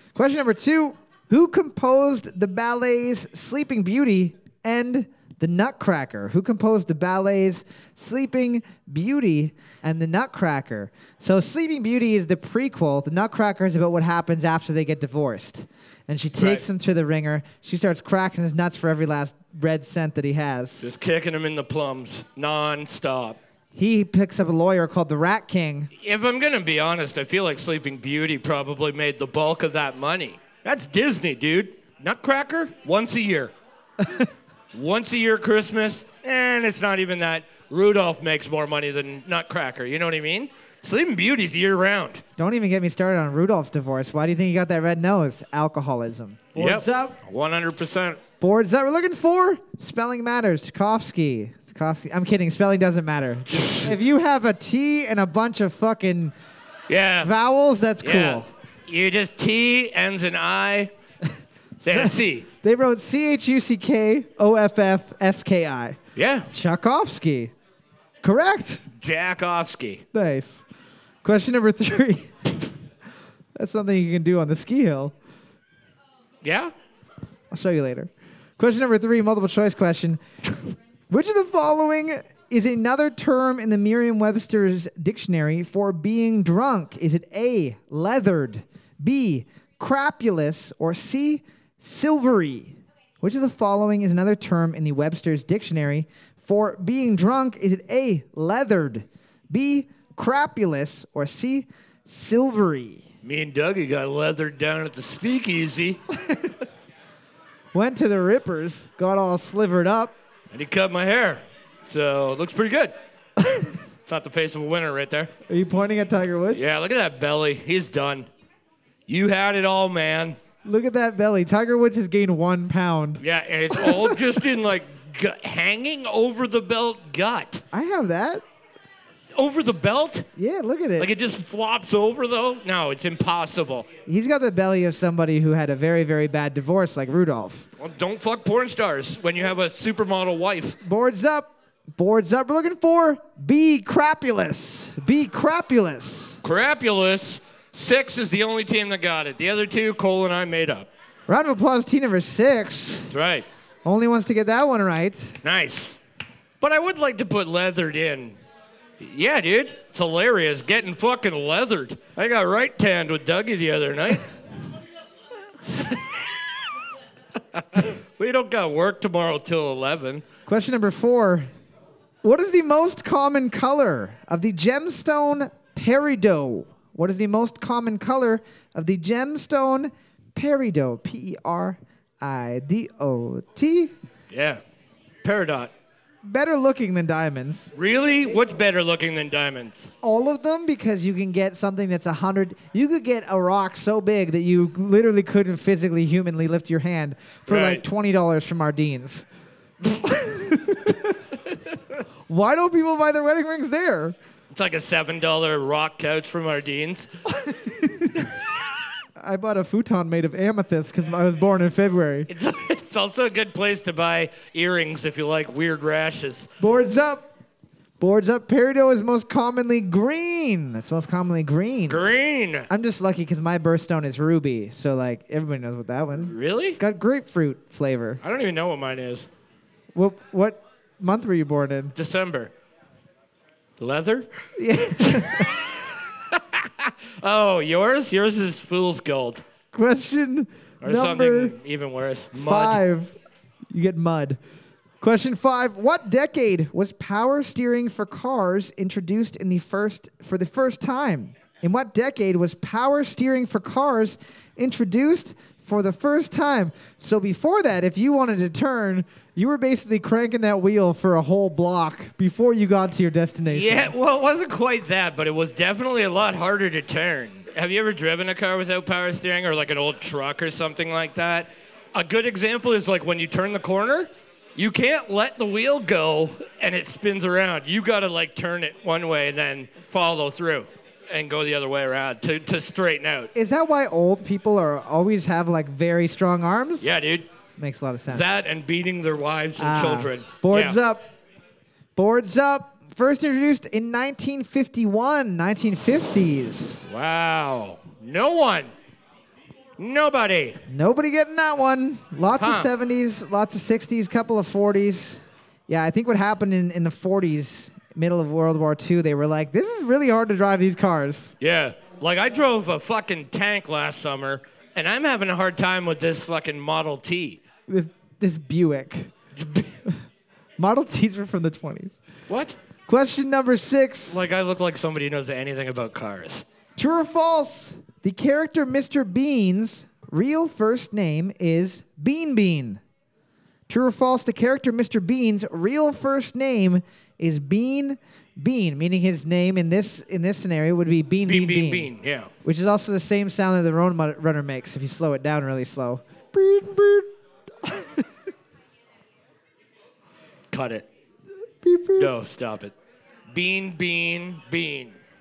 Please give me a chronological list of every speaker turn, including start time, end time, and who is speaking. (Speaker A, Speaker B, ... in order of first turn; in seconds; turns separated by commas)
Speaker A: 0.1-20.8, Speaker B: 16.4-16.6, Speaker B: 20.8-23.4, Speaker A: 23.7-25.9, Speaker B: 26.0-33.5, Speaker B: 34.7-42.2, Speaker A: 42.4-47.2, Speaker B: 46.5-48.2, Speaker A: 48.4-56.3, Speaker B: 53.5-53.9, Speaker B: 56.9-57.3, Speaker A: 57.2-58.5, Speaker B: 58.0-60.9, Speaker A: 61.8-66.0, Speaker B: 61.8-62.5, Speaker B: 66.2-66.5, Speaker A: 66.5-67.5, Speaker A: 68.2-68.8, Speaker B: 69.0-70.0, Speaker A: 70.1-70.6, Speaker A: 71.2-72.7, Speaker A: 73.5-75.1, Speaker B: 76.4-76.7, Speaker A: 77.5-80.2, Speaker A: 81.1-103.0, Speaker B: 103.2-106.0, Speaker A: 107.7-110.1, Speaker B: 110.5-112.9, Speaker B: 114.0-115.3, Speaker A: 115.5-116.7, Speaker B: 116.5-118.3, Speaker B: 119.1-120.4, Speaker A: 120.6-123.2, Speaker B: 123.2-127.6, Speaker A: 123.8-124.1, Speaker A: 127.7-128.4, Speaker B: 129.3-130.3, Speaker A: 130.4-131.1, Speaker B: 131.0-133.9, Speaker A: 134.1-137.7, Speaker B: 137.8-140.8, Speaker A: 140.8-146.4, Speaker B: 146.4-150.9, Speaker A: 151.3-153.1, Speaker B: 153.1-153.5, Speaker A: 153.8-155.4, Speaker B: 155.4-156.0, Speaker B: 156.6-158.4, Speaker B: 159.0-164.3, Speaker B: 165.7-166.2, Speaker B: 167.5-170.2, Speaker A: 170.5-171.5, Speaker A: 172.2-183.9, Speaker B: 184.3-184.6, Speaker B: 185.2-185.7, Speaker A: 186.2-187.7, Speaker B: 187.7-189.9, Speaker A: 190.0-199.2, Speaker B: 197.5-197.8, Speaker A: 200.0-201.1, Speaker A: 202.3-204.1, Speaker B: 204.5-207.1, Speaker A: 207.4-208.1, Speaker A: 209.2-212.3, Speaker B: 212.3-216.5, Speaker A: 216.6-217.2, Speaker A: 218.0-222.0, Speaker B: 221.9-222.7, Speaker A: 222.7-228.2, Speaker B: 226.2-226.8, Speaker B: 228.2-229.3, Speaker A: 229.9-231.9, Speaker B: 231.9-232.5, Speaker B: 233.8-234.3, Speaker A: 234.6-235.5, Speaker B: 235.0-235.6, Speaker B: 236.3-239.4, Speaker A: 239.7-241.5, Speaker B: 240.8-242.8, Speaker A: 242.3-243.2, Speaker A: 243.7-244.4, Speaker A: 245.0-263.9, Speaker B: 263.5-283.3, Speaker A: 283.3-286.9, Speaker B: 286.8-287.3, Speaker A: 287.6-288.2, Speaker B: 288.1-290.8, Speaker A: 289.6-291.0, Speaker A: 291.9-296.9, Speaker B: 296.9-298.7, Speaker B: 299.8-300.6, Speaker A: 300.7-311.4, Speaker B: 302.3-302.7, Speaker B: 311.4-317.4, Speaker A: 317.7-319.1, Speaker B: 319.4-319.7, Speaker A: 320.6-322.0, Speaker B: 322.3-322.6, Speaker A: 322.9-324.2, Speaker B: 324.1-326.4, Speaker A: 326.8-332.8, Speaker A: 333.7-341.9, Speaker B: 341.2-342.3, Speaker A: 342.4-347.1, Speaker A: 347.6-348.0, Speaker B: 350.5-350.9, Speaker A: 351.6-352.1, Speaker B: 352.0-352.7, Speaker B: 353.3-355.0